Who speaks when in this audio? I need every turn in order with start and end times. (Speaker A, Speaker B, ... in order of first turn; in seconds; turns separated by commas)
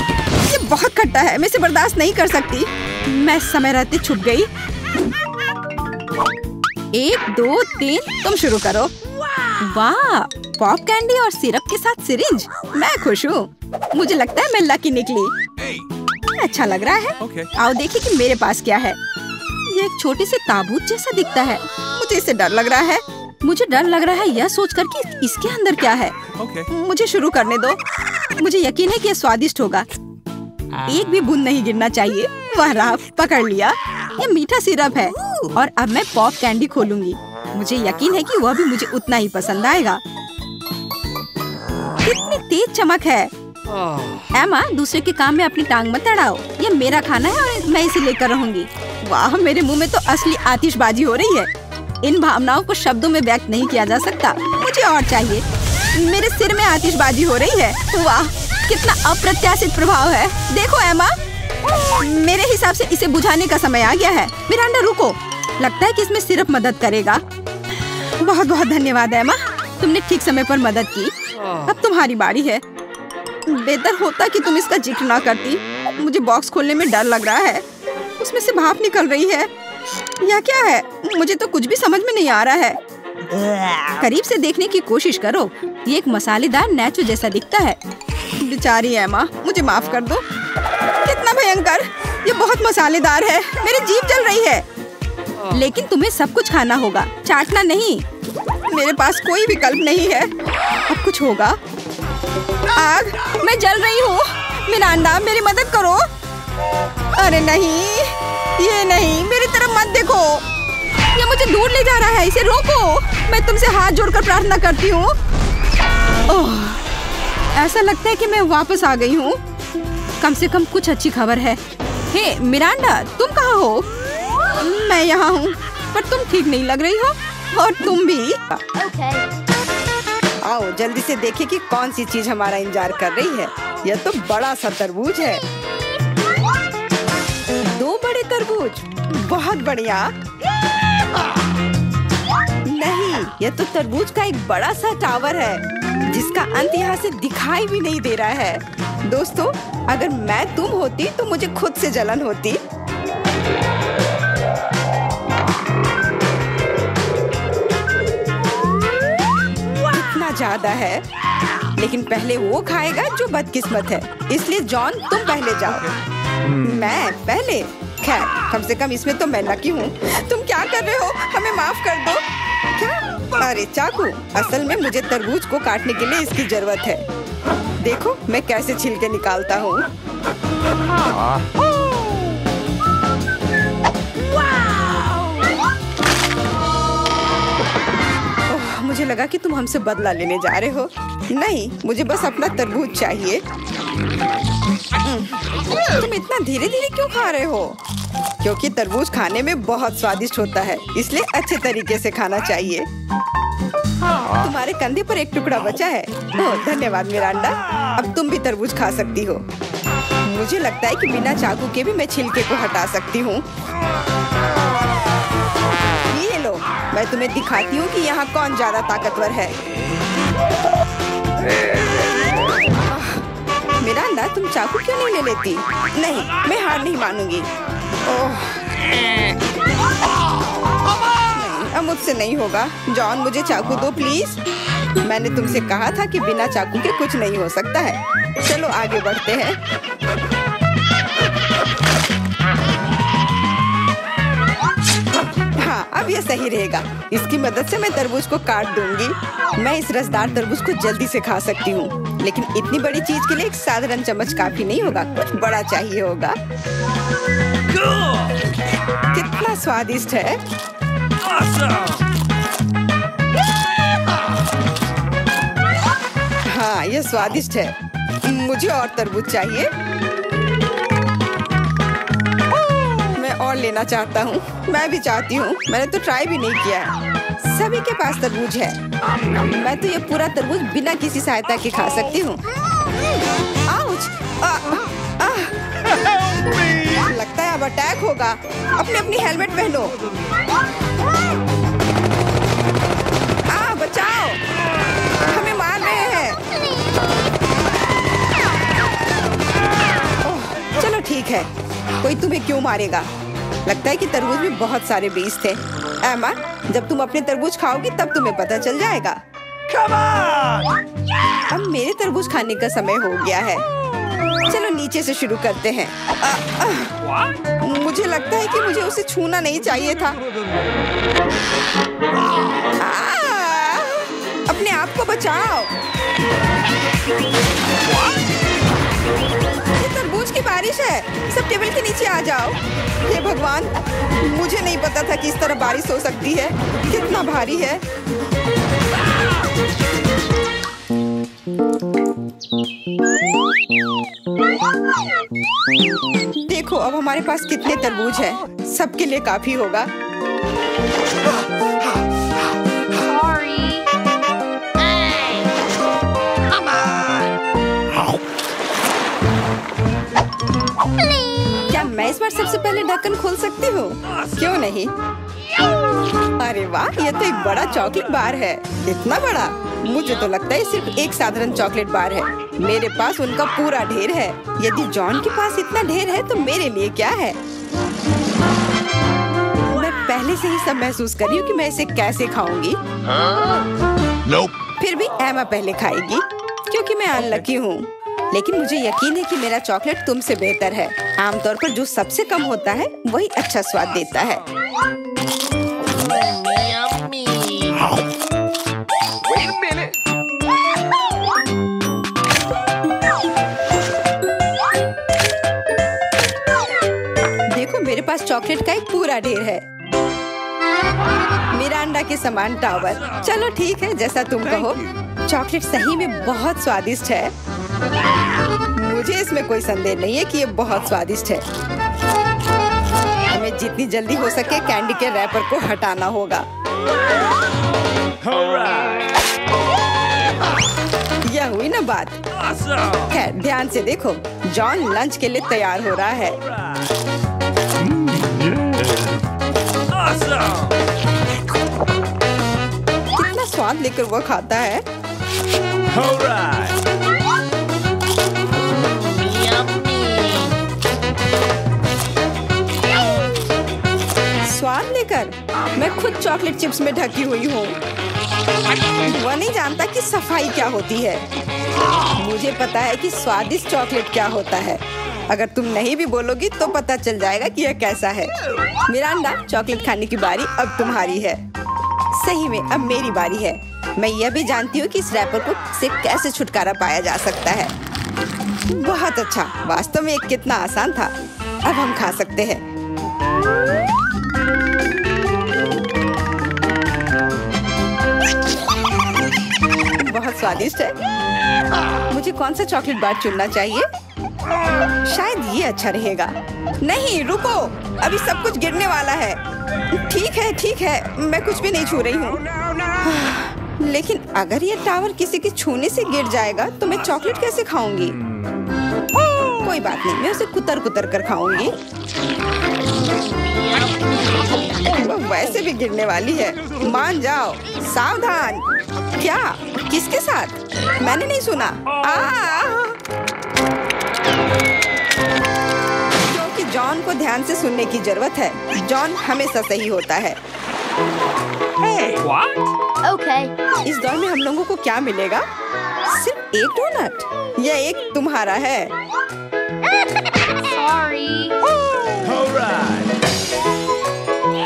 Speaker A: 0.4-4.5, Speaker A: 6.9-8.9, Speaker A: 9.6-15.4, Speaker A: 16.3-19.0, Speaker A: 19.7-27.8, Speaker B: 26.3-26.7, Speaker A: 28.4-29.9, Speaker A: 30.8-40.0, Speaker A: 42.0-43.3, Speaker A: 44.3-51.5, Speaker A: 52.0-61.1, Speaker A: 61.9-67.2, Speaker A: 67.8-72.6, Speaker A: 73.5-77.6, Speaker A: 78.2-79.5, Speaker A: 80.2-82.8, Speaker A: 83.9-87.8, Speaker A: 88.4-90.2, Speaker A: 91.0-94.7, Speaker A: 95.5-98.0, Speaker A: 98.7-100.3, Speaker A: 100.8-101.6, Speaker A: 102.7-106.1, Speaker A: 107.1-110.4, Speaker A: 111.1-115.2, Speaker A: 116.3-116.8, Speaker A: 117.5-119.4, Speaker A: 120.2-123.9, Speaker A: 124.6-128.6, Speaker C: 128.8-129.3, Speaker A: 130.4-135.4, Speaker A: 137.6-140.1, Speaker A: 142.7-152.6, Speaker A: 159.8-161.0, Speaker A: 161.8-166.0, Speaker A: 166.5-172.2, Speaker A: 172.7-177.0, Speaker A: 177.8-179.9, Speaker A: 188.5-193.4, Speaker A: 195.0-197.8, Speaker A: 198.4-202.9, Speaker A: 204.3-209.5, Speaker A: 210.2-213.4, Speaker A: 216.1-219.6, Speaker A: 222.9-223.2, Speaker A: 223.8-227.5, Speaker A: 228.0-228.7, Speaker A: 231.2-234.4, Speaker A: 235.0-239.6, Speaker A: 245.6-256.4, Speaker A: 259.1-260.4, Speaker B: 261.5-261.9, Speaker A: 266.4-269.7, Speaker A: 273.0-278.8, Speaker A: 279.5-282.4, Speaker A: 283.6-285.6, Speaker A: 286.8-289.9, Speaker A: 293.5-294.4, Speaker A: 295.2-296.4, Speaker A: 300.2-301.5, Speaker A: 302.0-303.1, Speaker A: 303.6-309.2, Speaker A: 311.5-313.6, Speaker A: 314.5-317.0, Speaker A: 317.6-320.2, Speaker A: 322.8-325.7, Speaker A: 329.8-337.8, Speaker A: 346.4-349.9, Speaker C: 353.1-353.9, Speaker A: 361.7-364.9, Speaker A: 366.4-377.4, Speaker A: 379.7-382.8, Speaker A: 384.8-394.4, Speaker B: 396.1-397.8, Speaker A: 407.5-409.6, Speaker A: 411.5-417.3, Speaker A: 418.7-421.4, Speaker A: 423.3-426.4, Speaker B: 428.3-429.0, Speaker A: 431.2-432.2, Speaker A: 432.9-436.4, Speaker B: 438.4-438.8, Speaker B: 440.0-440.6, Speaker A: 443.1-444.8, Speaker B: 445.9-446.7, Speaker B: 448.8-450.5, Speaker A: 454.4-457.8, Speaker A: 459.0-461.2, Speaker A: 462.2-468.3, Speaker A: 468.9-471.4, Speaker A: 472.1-477.7, Speaker A: 478.7-482.6, Speaker A: 489.9-490.9, Speaker A: 492.1-493.9, Speaker A: 495.0-499.4, Speaker A: 499.9-508.2, Speaker A: 509.5-511.8, Speaker A: 514.7-523.0, Speaker A: 526.3-530.4, Speaker A: 531.8-532.2, Speaker B: 532.2-532.6, Speaker C: 533.0-533.5, Speaker A: 533.8-535.5, Speaker A: 536.1-538.9, Speaker C: 540.6-541.5, Speaker B: 542.2-543.0